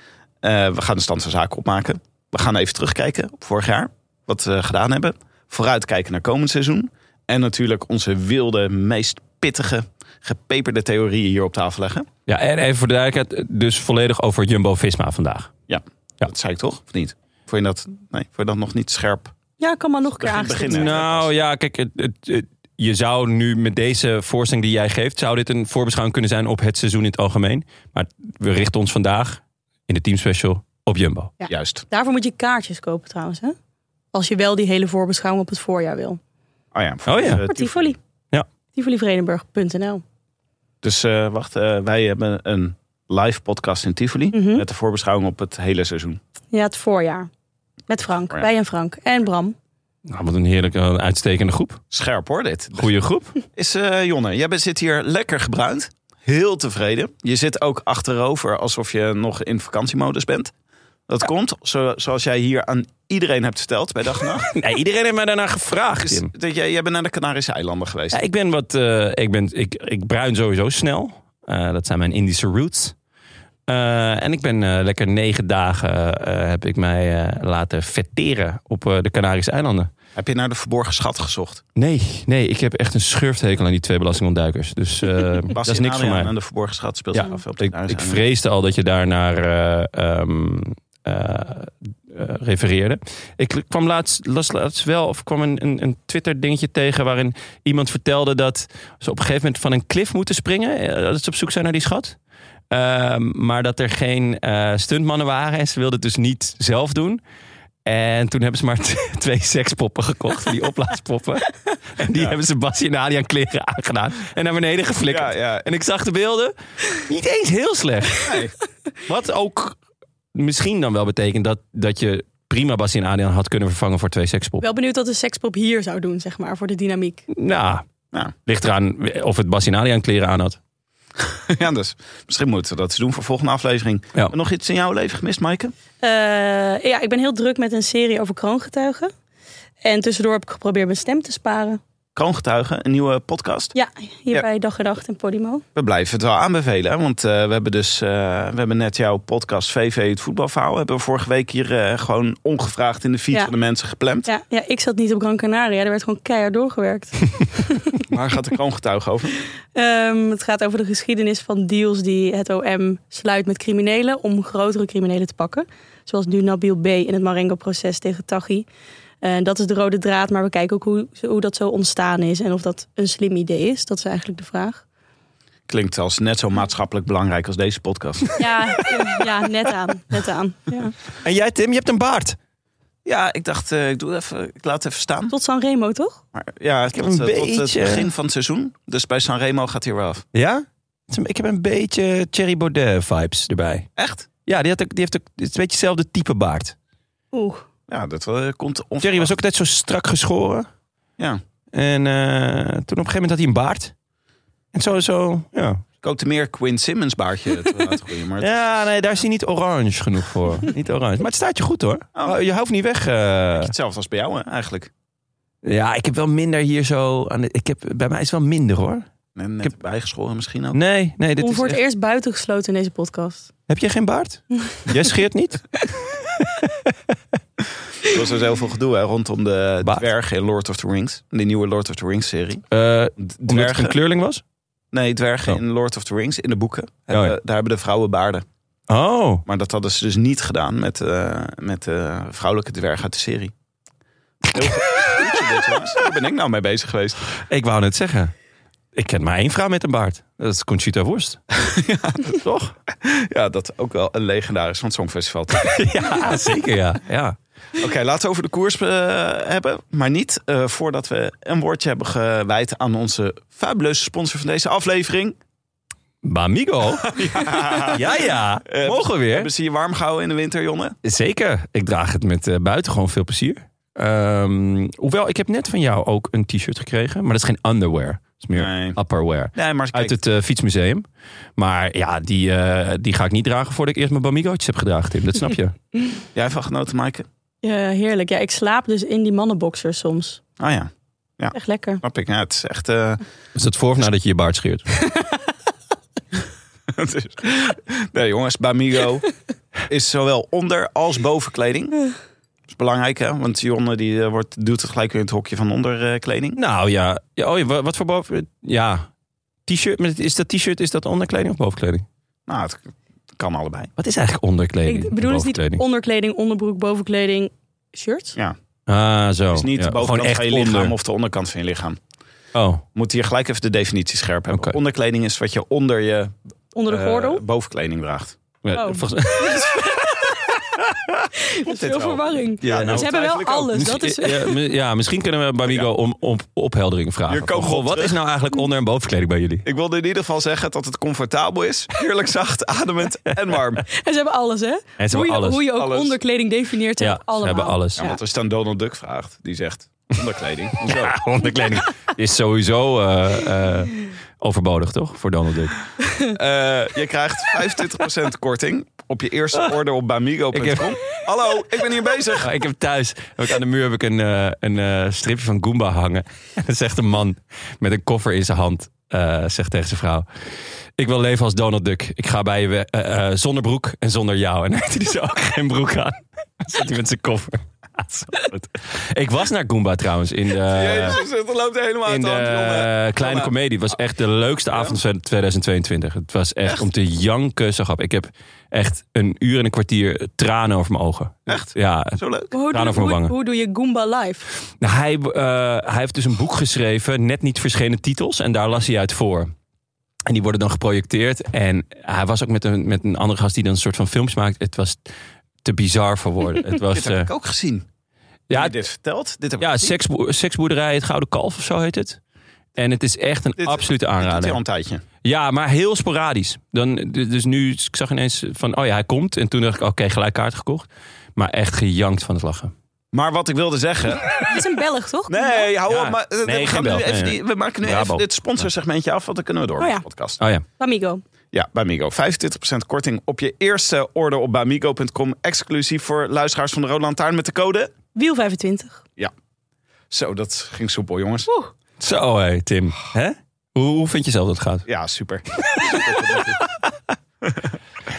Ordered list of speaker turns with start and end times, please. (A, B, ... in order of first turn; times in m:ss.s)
0:00.4-0:12.1 A
0:12.3-0:15.5 B
0:15.7-0:19.3 A
0:19.6-0:20.9 C
0:20.2-0:21.3 A
0:20.7-0:31.3 B
0:31.4-0:33.6 C
0:31.5-0:31.8 A
0:34.1-0:36.2 C
0:36.7-0:38.0 A
0:37.0-0:37.4 B
0:37.4-0:38.0 C
0:38.7-0:40.0 C
0:40.8-0:46.2 A
0:44.3-0:44.6 C
0:46.5-0:47.3 C
0:47.9-0:49.5 C
0:50.1-0:51.8 B
0:51.9-0:52.9 A
0:52.8-0:53.4 B
0:53.5-1:00.5 A
1:01.1-1:04.5 A
1:04.5-1:06.3 B
1:06.0-1:08.2 A
1:08.1-1:12.9 B
1:13.7-1:19.9 B
1:20.2-1:21.6 A
1:21.8-1:26.3 B
1:25.5-1:28.2 A
1:27.1-1:42.2 B
1:42.7-1:47.2 B
1:47.8-1:58.3 B
1:55.1-1:55.7 A
1:58.2-1:58.5 A
1:59.0-1:59.8 B
2:00.3-2:04.6 B
2:04.6-2:07.2 C
2:07.3-2:07.8 B
2:08.4-2:10.6 B
2:11.2-2:15.7 A
2:16.0-2:19.1 C
2:19.8-2:21.8 C
2:22.1-2:23.7 A
2:23.7-2:25.6 C
2:25.7-2:34.3 A
2:34.2-2:37.9 C
2:38.1-2:39.4 A
2:39.7-2:48.7 C
2:49.2-2:54.8 C
2:55.7-2:58.4 A
2:58.4-3:00.9 C
2:58.8-2:59.2 B
3:01.2-3:02.4 B
3:03.0-3:05.3 A
3:05.3-3:06.2 C
3:06.3-3:10.2 A
3:06.9-3:08.1 B
3:10.3-3:13.9 B
3:14.0-3:14.3 A
3:14.4-3:16.7 B
3:17.3-3:17.6 C
3:17.9-3:19.3 A
3:19.0-3:20.7 B
3:21.7-3:23.9 B
3:24.7-3:25.8 B
3:26.0-3:28.7 A
3:28.4-3:33.7 B
3:33.5-3:34.9 A
3:35.6-3:39.0 B
3:39.4-3:40.8 A
3:40.7-3:41.8 B
3:41.4-3:43.5 C
3:43.7-3:46.9 B
3:44.6-3:44.9 C
3:48.0-3:52.6 A
3:52.7-3:54.4 B
3:53.2-3:54.0 A
3:54.9-3:58.4 A
3:57.1-3:57.4 B
3:58.9-3:59.4 B
3:59.4-4:03.5 A
4:04.5-4:07.2 A
4:04.5-4:05.2 B
4:07.5-4:08.3 B
4:08.9-4:11.4 B
4:11.5-4:12.4 A
4:12.2-4:12.7 B
4:13.0-4:15.8 A
4:15.6-4:17.4 B
4:17.8-4:25.4 A
4:26.2-4:29.5 B
4:27.0-4:30.9 A
4:31.0-4:41.0 B
4:38.5-4:39.0 A
4:39.5-4:40.2 A
4:41.6-4:45.8 B
4:46.3-4:47.2 A
4:47.6-4:50.4 C
4:50.6-4:53.2 A
4:51.5-4:52.0 C
4:53.5-4:54.9 B
4:55.0-4:55.4 C
4:56.9-4:59.2 A
4:59.8-5:02.0 A
5:02.7-5:06.6 A
5:06.6-5:09.1 B
5:09.7-5:12.0 B
5:12.5-5:13.9 A
5:14.0-5:15.8 B
5:14.8-5:18.4 C
5:18.9-5:20.9 B
5:19.5-5:22.0 A
5:22.5-5:22.8 B
5:22.9-5:26.4 A
5:24.5-5:24.8 B
5:26.7-5:27.4 C
5:26.9-5:28.4 A
5:28.6-5:29.7 B
5:28.7-5:30.6 C
5:30.8-5:31.3 B
5:31.3-5:34.6 C
5:31.7-5:33.8 A
5:32.6-5:33.1 B
5:33.7-5:39.7 B
5:37.3-5:38.2 A
5:39.6-5:43.8 A
5:43.9-5:48.2 C
5:45.0-5:45.6 B
5:45.7-5:46.2 A
5:47.0-5:48.1 B
5:48.0-5:51.2 A
5:50.8-5:55.8 B
5:56.0-5:56.3 C
5:56.3-6:02.5 A
6:00.5-6:01.0 B
6:02.4-6:10.3 B
6:11.0-6:21.2 B
6:20.7-6:23.5 A
6:22.0-6:33.3 B
6:24.7-6:25.0 A
6:31.5-6:32.5 A
6:32.5-6:34.5 C
6:34.8-6:39.5 B
6:40.2-6:45.1 B
6:45.6-6:47.3 B
6:46.9-6:47.8 A
6:48.5-6:48.8 B
6:48.5-6:49.9 A
6:49.6-6:52.2 B
6:52.8-6:54.6 B
6:53.6-6:55.0 A
6:55.2-7:02.7 B
7:03.1-7:04.6 A
7:04.5-7:05.7 C
7:05.3-7:10.4 A
7:05.9-7:08.3 B
7:09.8-7:10.0 C
7:10.4-7:10.6 B
7:10.8-7:11.2 C
7:11.5-7:17.9 A
7:18.1-7:19.0 C
7:20.1-7:21.5 A
7:22.0-7:24.9 B
7:24.8-7:26.6 A
7:25.7-7:26.5 B
7:27.4-7:27.7 A